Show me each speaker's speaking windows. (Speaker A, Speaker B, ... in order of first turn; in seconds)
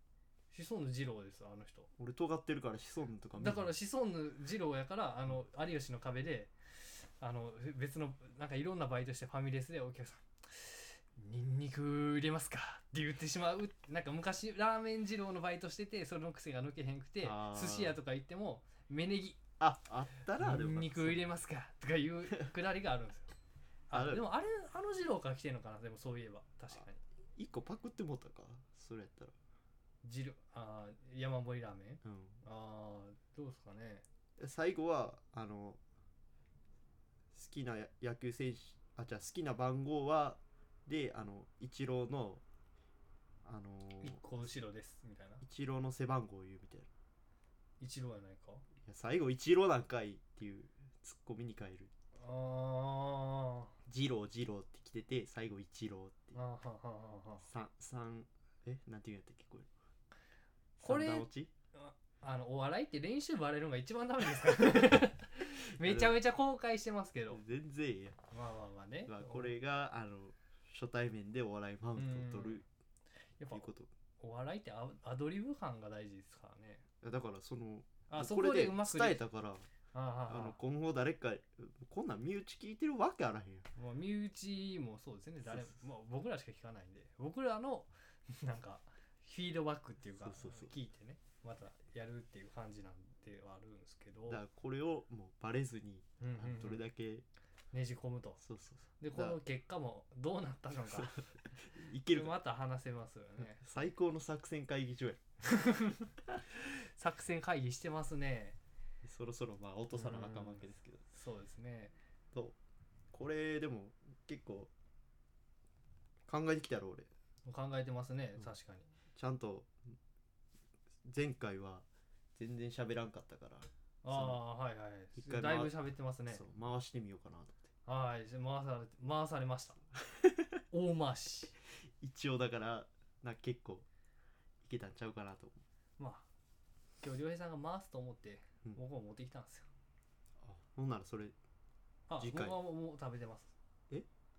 Speaker A: 0.5-1.9, 3.3-19.4, 20.4-23.3, 23.9-27.0, 30.0-34.0, 44.0-45.4, 47.8-48.6, 52.2-53.7, 56.3-57.5, 60.8-67.4, 68.3-69.5, 72.0-72.6, 73.4-73.7, 74.2-76.8, 78.1-79.2, 79.9-80.6, 83.7-94.4, 96.2-96.8, 97.7-98.4, 99.0-101.4, 102.0-103.6, 105.4-108.6, 109.9-111.9, 117.4-118.9, 124.0-126.4, 127.8-129.8, 130.7-131.6, 136.0-136.2, 137.0-139.7, 142.1-143.5
Speaker B: 2.0-3.7, 17.2-18.0, 19.6-21.3, 23.9-24.3, 27.4-29.3, 32.0-32.4, 34.4-35.8, 37.3-42.4, 43.4-44.3, 45.4-46.9, 48.8-51.9, 53.9-56.4, 57.4-59.7, 60.8-61.5, 65.4-66.2, 67.3-68.2, 69.1-72.6, 73.5-73.9, 77.0-79.7, 80.3-83.7, 90.1-90.7, 94.3-97.2, 98.4-99.4, 101.6-102.4, 103.4-105.2, 109.0-111.0, 113.1-114.7, 116.3-117.1, 119.2-120.0, 121.0-121.8, 122.3-124.4, 125.2-127.6, 132.0-133.9, 134.6-135.6, 140.4-141.3, 142.2-142.6